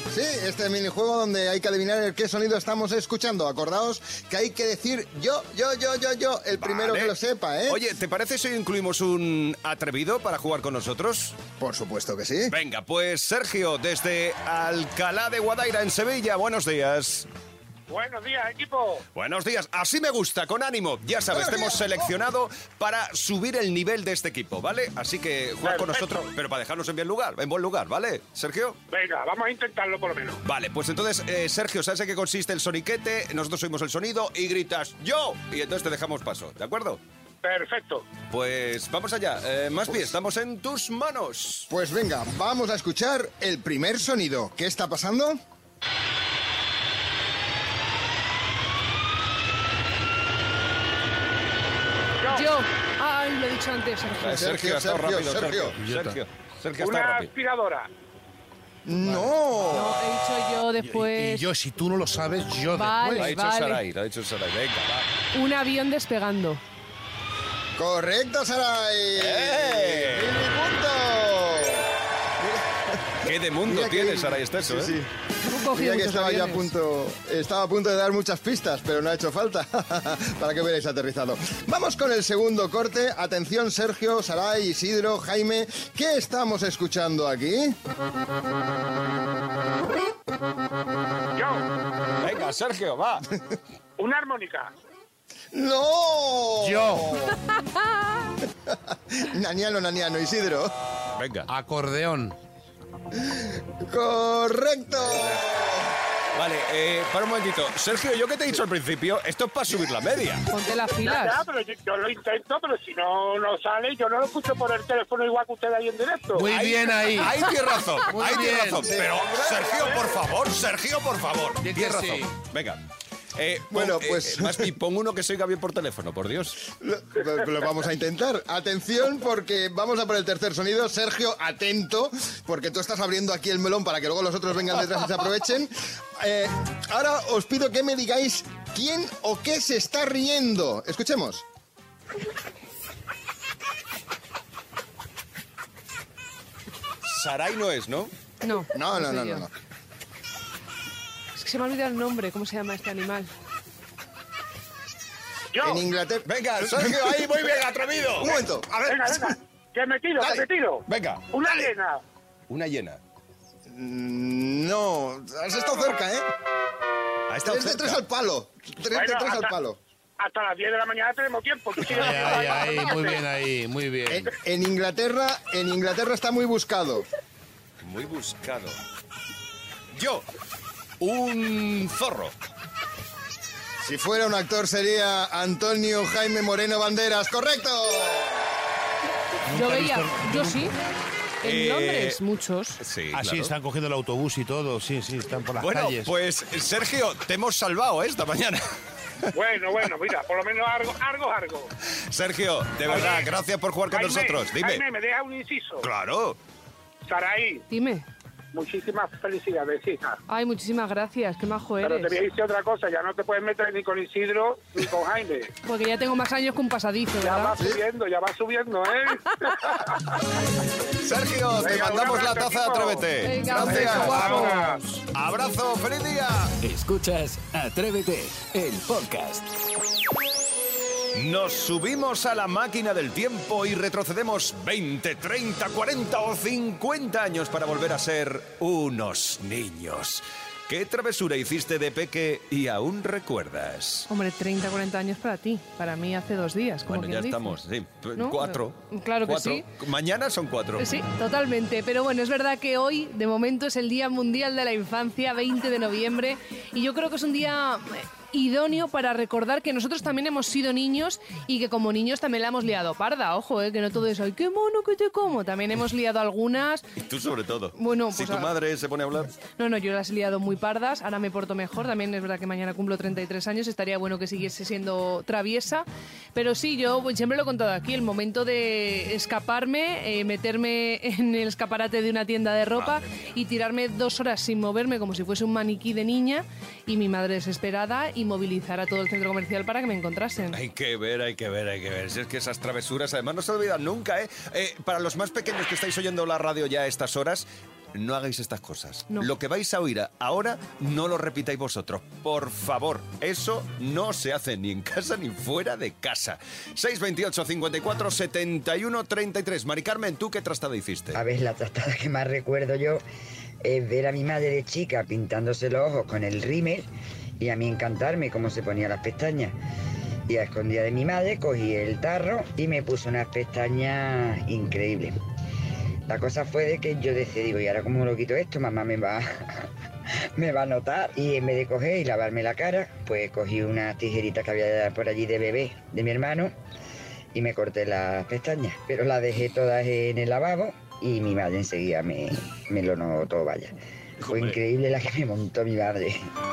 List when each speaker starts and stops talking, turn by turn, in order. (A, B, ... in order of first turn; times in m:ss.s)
0:00.1-0:07.8 A
0:06.6-0:07.1 B
0:07.7-0:11.4 B
0:11.6-0:12.5 A
0:12.5-0:17.3 B
0:17.9-0:19.0 C
0:19.1-0:28.8 B
0:21.3-0:21.9 A
0:25.6-0:26.3 C
0:28.9-0:30.4 C
0:30.4-0:37.0 B
0:37.4-0:38.1 C
0:38.3-0:41.7 B
0:41.7-0:45.4 A
0:52.3-0:54.5 D
0:54.2-0:57.3 B
0:54.4-0:55.8 A
0:55.8-0:56.2 E
0:56.8-0:57.9 C
0:58.8-1:00.0 A
0:59.0-0:59.3 E
0:59.7-1:01.5 D
1:00.8-1:03.4 E
1:02.7-1:03.8 D
1:03.2-1:05.1 B
1:05.3-1:06.6 D
1:07.8-1:11.8 A
1:09.2-1:10.4 B
1:12.4-1:15.1 A
1:13.2-1:15.0 B
1:15.4-1:16.7 D
1:15.7-1:27.7 A
1:31.3-1:31.6 C
1:32.2-1:33.2 B
1:34.0-1:34.7 C
1:35.5-1:37.3 A
1:36.6-1:37.2 E
1:38.7-1:40.7 A
1:41.2-1:41.5 B
1:41.5-1:42.3 E
1:43.1-1:45.8 A
1:46.3-1:50.4 B
1:50.5-1:51.4 D
1:51.0-1:56.5 C
1:56.3-1:58.9 E
1:56.5-2:02.8 B
1:58.3-1:59.9 A
2:01.6-2:02.3 E
2:03.4-2:06.6 B
2:03.7-2:04.7 A
2:06.7-2:21.4 A
2:27.0-2:28.1 B
2:28.4-2:29.4 D
2:28.7-2:29.5 A
2:31.3-2:33.3 D
2:35.5-2:35.8 C
2:35.6-2:37.5 A
2:36.2-2:38.4 B
2:38.2-2:39.4 A
2:38.9-2:42.0 C
2:40.2-2:40.4 A
2:40.9-2:41.7 B
2:42.5-2:43.0 B
2:43.7-2:46.3 A
2:47.3-2:48.0 B
2:47.4-2:49.8 A
2:48.9-2:49.6 C
2:50.2-2:53.2 C
2:51.9-2:54.3 E
2:54.1-2:57.0 A
2:57.8-2:58.8 B
2:59.9-3:00.2 B
3:01.0-3:02.3 B
3:03.8-3:08.3 A
3:09.5-3:10.7 E
3:09.5-3:10.7 D
3:11.4-3:12.8 D
3:11.4-3:12.2 B
3:12.8-3:13.5 B
3:13.1-3:16.1 E
3:15.6-3:18.6 B
3:19.3-3:21.7 C
3:22.1-3:24.8 B
3:22.9-3:23.3 C
3:23.9-3:25.8 C
3:25.8-3:26.4 B
3:27.1-3:27.6 C
3:27.7-3:28.0 D
3:28.5-3:30.2 C
3:30.3-3:32.2 D
3:31.8-3:35.5 C
3:35.6-3:37.5 D
3:37.2-3:40.0 C
3:41.0-3:44.6 B
3:41.5-3:43.1 C
3:43.2-3:44.7 D
3:43.6-3:44.8 C
3:43.8-3:44.8 E
3:45.1-3:46.5 B
3:46.6-3:49.5 F
3:51.1-4:04.1 B
4:04.1-4:07.6 D
4:06.8-4:10.9 B
4:08.2-4:09.7 D
4:10.8-4:26.8 D
4:27.0-4:29.3 B
4:27.8-4:28.5 D
4:29.6-4:50.6 D
4:42.8-4:43.3 B
4:50.5-5:11.2 B
5:11.1-5:13.0 G
5:13.6-5:16.9 G
5:17.4-5:19.6 G
5:20.3-5:25.2 G
5:26.1-5:29.7 G
5:30.4-5:36.5 G
5:37.3-5:43.7 G
5:44.2-5:44.6 B
5:44.3-5:46.3 G